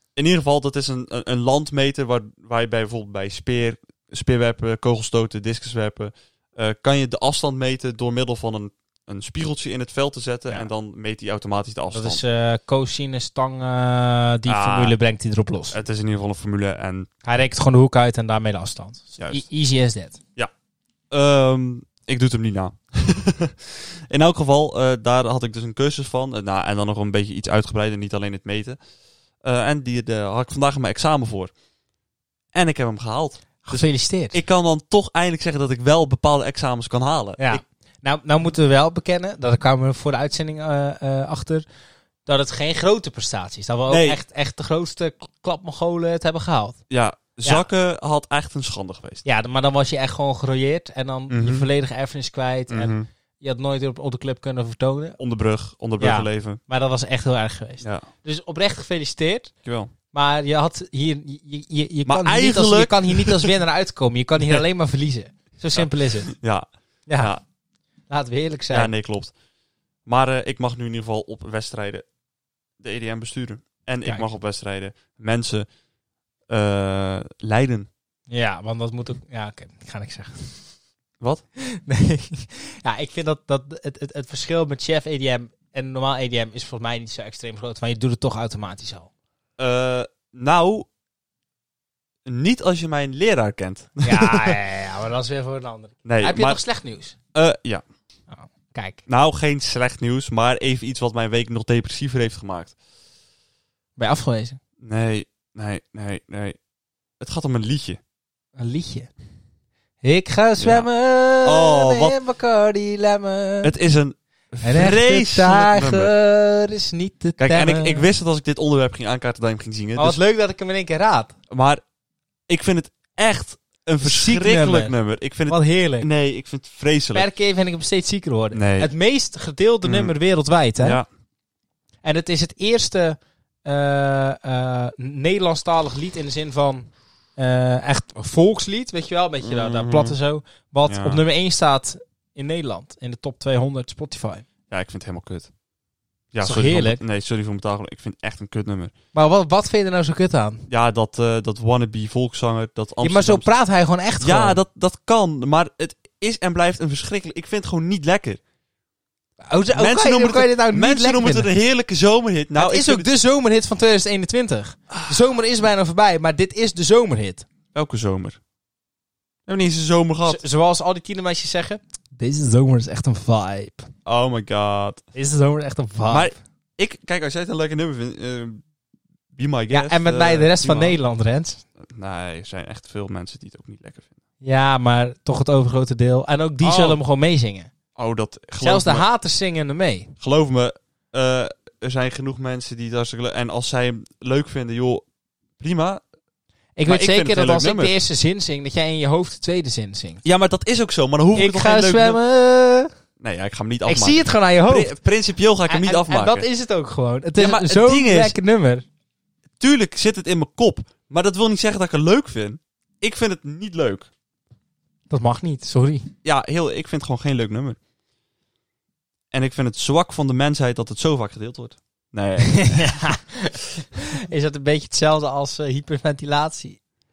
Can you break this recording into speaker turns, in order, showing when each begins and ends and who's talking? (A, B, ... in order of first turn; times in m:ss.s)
0:00.2-0:12.2 A
0:11.9-0:15.8 B
0:14.4-0:14.9 A
0:15.7-0:17.1 A
0:17.2-0:20.2 B
0:19.2-0:19.4 A
0:21.1-0:28.8 A
0:29.4-0:31.5 A
0:32.5-0:37.6 A
0:33.6-0:34.4 B
0:37.4-0:41.6 B
0:42.2-0:46.8 B
0:43.9-0:44.2 A
0:46.9-0:49.2 A
0:49.2-0:55.2 B
0:51.3-0:51.7 A
0:52.7-0:53.1 A
0:55.2-0:56.6 A
0:56.0-0:59.5 B
0:57.8-0:58.1 A
0:59.6-0:59.9 A
1:00.1-1:06.3 B
1:02.0-1:03.6 A
1:05.7-1:07.4 A
1:07.1-1:07.3 B
1:08.1-1:08.9 B
1:08.7-1:09.3 A
1:10.0-1:12.0 A
1:12.8-1:15.7 A
1:16.5-1:17.9 A
1:18.3-1:20.6 B
1:21.6-1:29.1 B
1:29.6-1:30.9 A
1:32.2-1:34.6 A
1:34.0-1:37.2 B
1:36.0-1:36.6 A
1:37.3-1:37.8 A
1:38.3-1:39.0 B
1:39.1-1:42.7 A
1:44.0-1:44.6 B
1:44.8-1:46.6 A
1:47.2-1:48.0 A
1:48.6-1:49.1 B
1:50.0-1:53.7 B
1:50.6-1:50.9 A
1:51.4-1:52.2 A
1:53.6-1:56.1 A
1:54.6-1:58.1 B
1:57.4-2:00.2 A
2:00.0-2:01.3 B
2:01.5-2:01.8 A
2:02.5-2:07.3 A
2:04.0-2:04.9 B
2:05.5-2:06.1 B
2:07.1-2:11.0 B
2:08.5-2:08.9 A
2:09.8-2:10.1 A
2:10.8-2:11.1 A
2:12.0-2:24.4 B
2:19.4-2:20.2 A
2:20.9-2:21.2 A
2:24.7-2:25.5 A
2:26.3-2:28.9 A
2:26.4-2:27.0 B
2:29.1-2:30.7 B
2:30.7-2:33.5 A
2:33.0-2:34.6 B
2:34.2-2:38.4 A
2:39.5-2:41.5 B
2:39.7-2:43.1 A
2:42.5-2:47.4 B
2:44.9-2:45.2 A
2:47.7-2:48.4 A
2:49.5-2:50.4 A
2:50.2-2:53.9 B
2:54.0-2:55.0 A
2:55.1-2:56.4 B
2:56.1-2:58.6 A
2:59.3-3:01.0 A
2:59.7-3:01.6 B
3:01.8-3:04.1 A
3:04.4-3:07.7 B
3:06.6-3:07.0 A
3:08.0-3:09.0 A
3:08.6-3:10.1 B
3:10.2-3:15.0 A
3:15.6-3:16.0 A
3:16.8-3:20.2 B
3:16.8-3:17.9 A
3:20.2-3:22.2 A
3:21.3-3:22.9 B
3:23.2-3:26.4 A
3:23.8-3:25.0 B
3:25.7-3:28.8 B
3:27.4-3:28.4 A
3:29.6-3:34.1 A
3:35.1-3:36.1 B
3:36.2-3:37.8 A
3:39.3-3:43.2 A
3:42.4-3:46.8 B